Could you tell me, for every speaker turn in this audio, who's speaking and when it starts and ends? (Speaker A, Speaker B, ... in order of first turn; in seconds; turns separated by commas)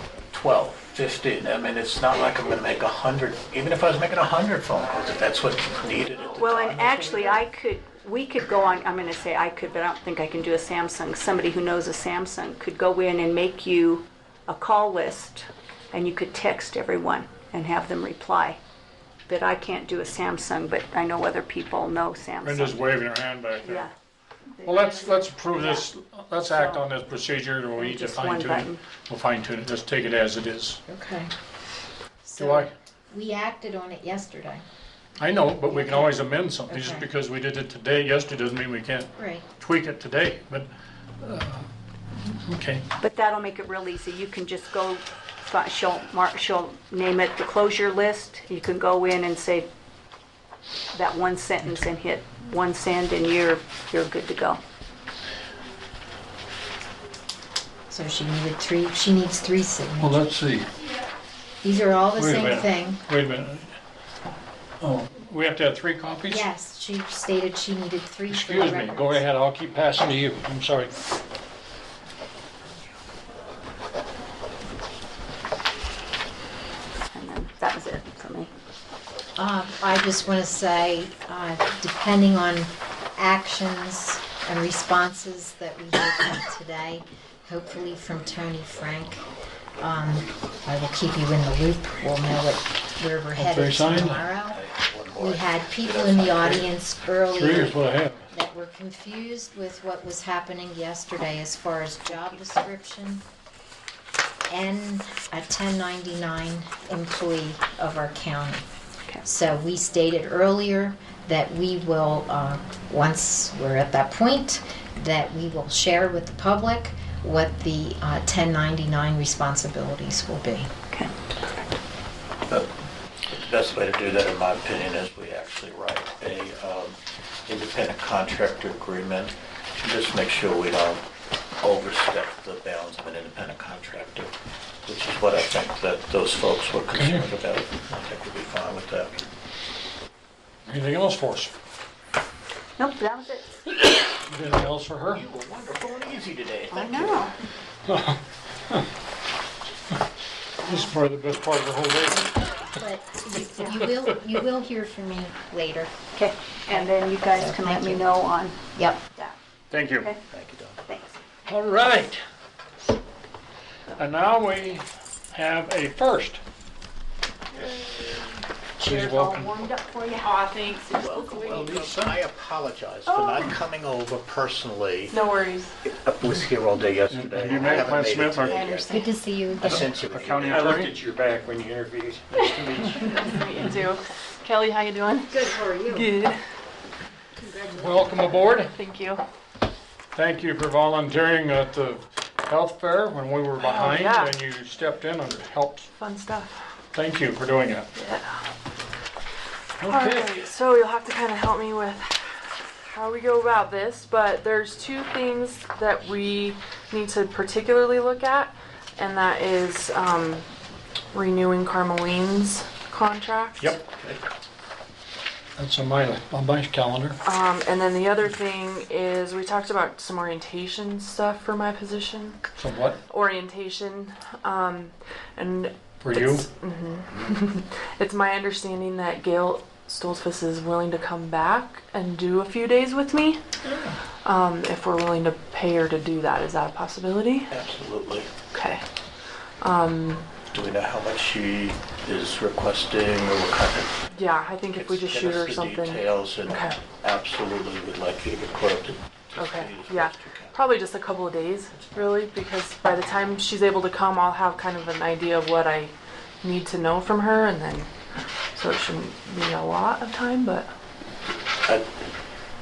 Speaker A: 0.3-7.4, Speaker B: 6.4-18.6, Speaker B: 19.3-22.9, Speaker C: 22.4-23.9, Speaker B: 23.6-23.9, Speaker B: 24.6-25.9, Speaker C: 24.6-30.8, Speaker B: 26.5-26.8, Speaker B: 27.8-28.8, Speaker D: 30.9-31.3, Speaker D: 32.2-34.6, Speaker C: 32.4-32.7, Speaker C: 35.2-40.7, Speaker D: 35.7-37.1, Speaker D: 39.2-39.5, Speaker C: 41.2-41.7, Speaker C: 42.3-42.8, Speaker B: 43.0-49.7, Speaker B: 50.9-54.6, Speaker D: 57.9-60.3, Speaker C: 60.0-60.7, Speaker D: 61.6-63.0, Speaker C: 62.2-63.8, Speaker C: 64.8-66.5, Speaker D: 66.3-69.2, Speaker C: 68.3-71.0, Speaker B: 77.1-78.5, Speaker D: 79.4-89.2, Speaker D: 89.8-94.6, Speaker C: 93.3-94.2, Speaker A: 94.5-96.7, Speaker D: 95.2-97.8, Speaker C: 97.3-98.3, Speaker D: 98.3-103.2, Speaker D: 104.5-108.7, Speaker D: 109.2-120.7, Speaker B: 120.9-121.8, Speaker A: 123.3-131.1, Speaker A: 131.6-134.3, Speaker A: 134.9-139.1, Speaker C: 137.0-137.2, Speaker C: 140.7-141.5, Speaker B: 142.8-143.6, Speaker C: 144.3-145.2, Speaker A: 145.1-147.3, Speaker B: 146.7-147.3, Speaker C: 147.9-148.8, Speaker C: 150.7-152.8, Speaker D: 152.8-156.0, Speaker B: 156.1-159.3, Speaker D: 156.7-158.1, Speaker D: 158.8-159.0, Speaker C: 159.7-160.1, Speaker A: 160.3-160.8, Speaker B: 160.8-161.2, Speaker C: 161.5-162.2, Speaker C: 164.0-166.4, Speaker C: 168.8-169.6, Speaker B: 169.0-170.4, Speaker E: 170.1-171.9, Speaker B: 170.9-171.7, Speaker A: 171.4-175.2, Speaker E: 173.1-173.4, Speaker E: 175.1-175.7, Speaker A: 175.8-179.1, Speaker C: 177.1-178.6, Speaker B: 178.5-179.1, Speaker D: 178.7-179.9, Speaker A: 179.6-180.8, Speaker C: 179.6-181.0, Speaker F: 180.5-183.2, Speaker E: 182.3-186.4, Speaker D: 185.3-186.1, Speaker D: 187.5-187.9, Speaker C: 187.7-188.8, Speaker E: 188.7-189.2, Speaker C: 190.1-195.9, Speaker E: 193.6-194.4, Speaker E: 196.0-196.6, Speaker C: 196.9-197.9, Speaker E: 197.9-198.5, Speaker C: 199.8-200.3, Speaker E: 199.8-210.5, Speaker E: 211.1-213.8, Speaker A: 213.9-214.2, Speaker C: 215.6-217.2, Speaker E: 217.2-222.5, Speaker C: 222.6-223.0, Speaker E: 223.1-233.4, Speaker C: 226.0-226.5, Speaker E: 234.2-237.5, Speaker A: 237.5-238.3, Speaker E: 238.5-238.8, Speaker E: 239.6-240.3, Speaker A: 240.5-244.0, Speaker E: 244.1-246.8, Speaker A: 244.8-250.6, Speaker E: 249.4-257.9, Speaker E: 258.6-260.7